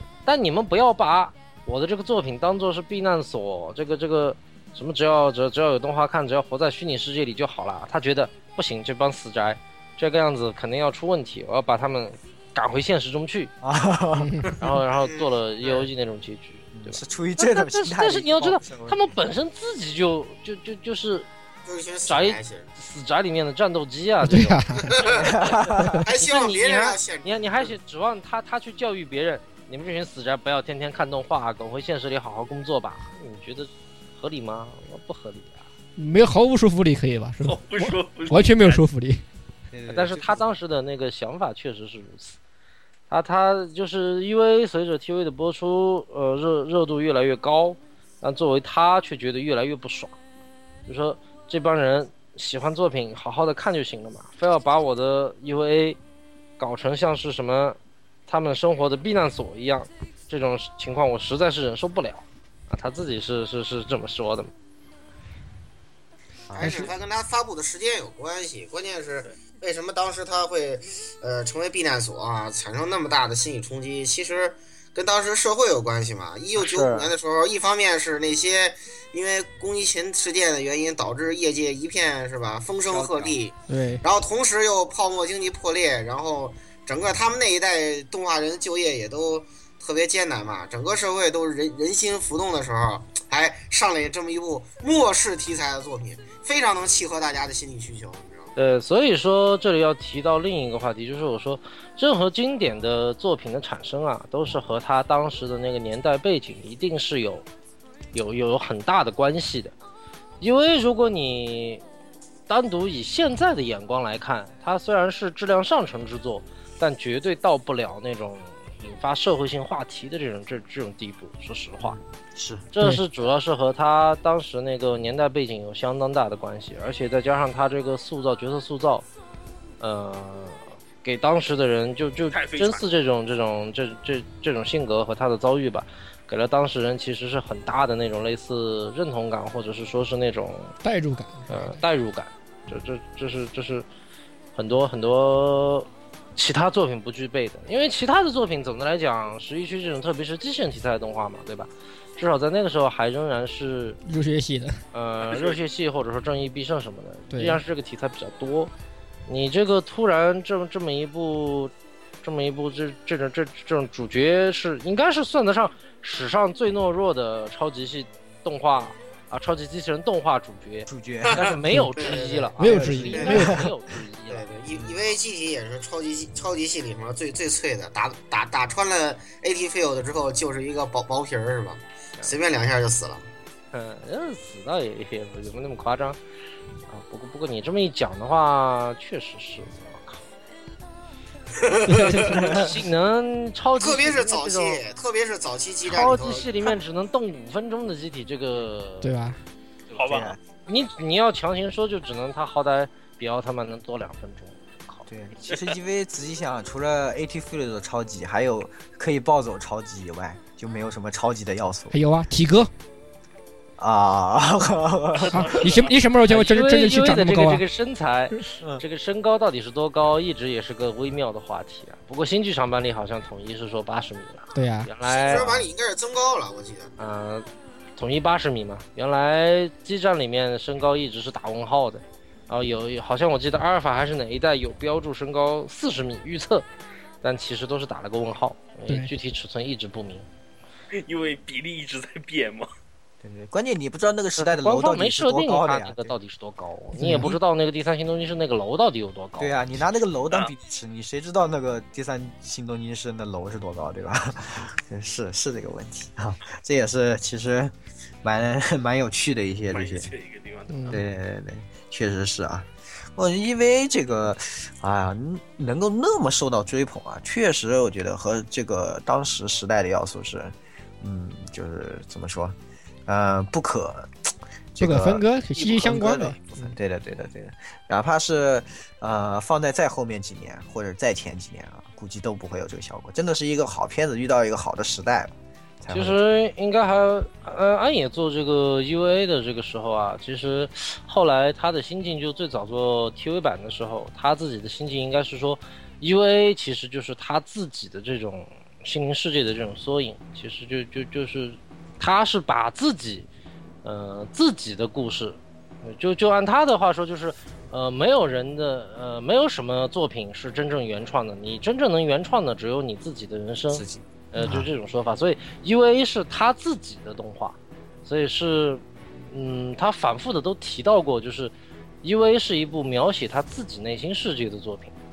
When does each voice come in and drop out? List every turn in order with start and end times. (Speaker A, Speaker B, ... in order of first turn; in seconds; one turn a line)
Speaker A: 0.3-13.5
Speaker B: 13.6-14.6
Speaker C: 14.2-14.5
Speaker A: 14.6-21.3
Speaker D: 14.9-15.9
Speaker B: 16.7-19.0
Speaker D: 21.7-22.7
Speaker A: 22.1-35.7
Speaker C: 24.2-24.9
Speaker D: 24.9-25.4
Speaker B: 25.1-26.0
Speaker D: 26.0-27.8
Speaker C: 36.0-39.2
Speaker E: 37.4-38.9
Speaker B: 39.7-40.5
Speaker A: 39.9-42.4
Speaker A: 43.1-50.1
Speaker A: 50.9-56.0
Speaker A: 56.6-64.5
Speaker B: 66.5-66.9
Speaker D: 66.6-98.5
Speaker B: 76.6-77.1
Speaker B: 82.9-83.4
Speaker C: 83.7-84.0
Speaker A: 98.6-107.5
Speaker A: 108.1-109.7
Speaker A: 110.4-111.8
Speaker A: 112.5-122.0
Speaker B: 121.8-122.7
Speaker A: 122.7-129.1
Speaker A: 129.8-140.8
Speaker E: 132.3-132.8
Speaker C: 140.8-141.7
Speaker A: 141.5-143.8
Speaker A: 144.6-154.0
Speaker C: 154.1-154.8
Speaker A: 154.9-158.7
Speaker E: 155.2-155.6
Speaker C: 157.3-157.6
Speaker A: 159.3-174.5
Speaker B: 170.9-171.5
Speaker D: 171.3-173.5
Speaker C: 172.6-173.6
Speaker B: 172.6-173.7
Speaker D: 174.3-183.3
Speaker A: 183.7-186.2
Speaker A: 186.9-190.2
Speaker D: 191.6-192.7
Speaker A: 192.1-194.8
Speaker B: 192.3-192.6
Speaker D: 193.8-196.8
Speaker A: 195.8-199.2
Speaker C: 199.0-199.4
Speaker B: 199.9-200.4
Speaker E: 199.9-200.4
Speaker A: 200.7-205.1
Speaker B: 205.1-212.0
Speaker C: 211.9-212.7
Speaker B: 213.8-215.7
Speaker E: 215.2-215.9
Speaker C: 215.3-217.6
Speaker A: 216.3-225.7
Speaker C: 224.6-224.9
Speaker D: 225.1-226.9
Speaker A: 227.0-236.7
Speaker A: 237.2-240.3
Speaker E: 240.9-242.7
Speaker B: 243.2-246.2
Speaker A: 244.4-249.6
Speaker C: 247.0-247.3
Speaker B: 249.4-260.1
Speaker E: 259.7-261.0
Speaker C: 260.7-261.0
Speaker B: 260.9-272.6
Speaker B: 273.1-286.2
Speaker C: 274.8-276.4
Speaker A: 285.9-303.3
Speaker A: 303.8-324.9
Speaker B: 313.7-314.7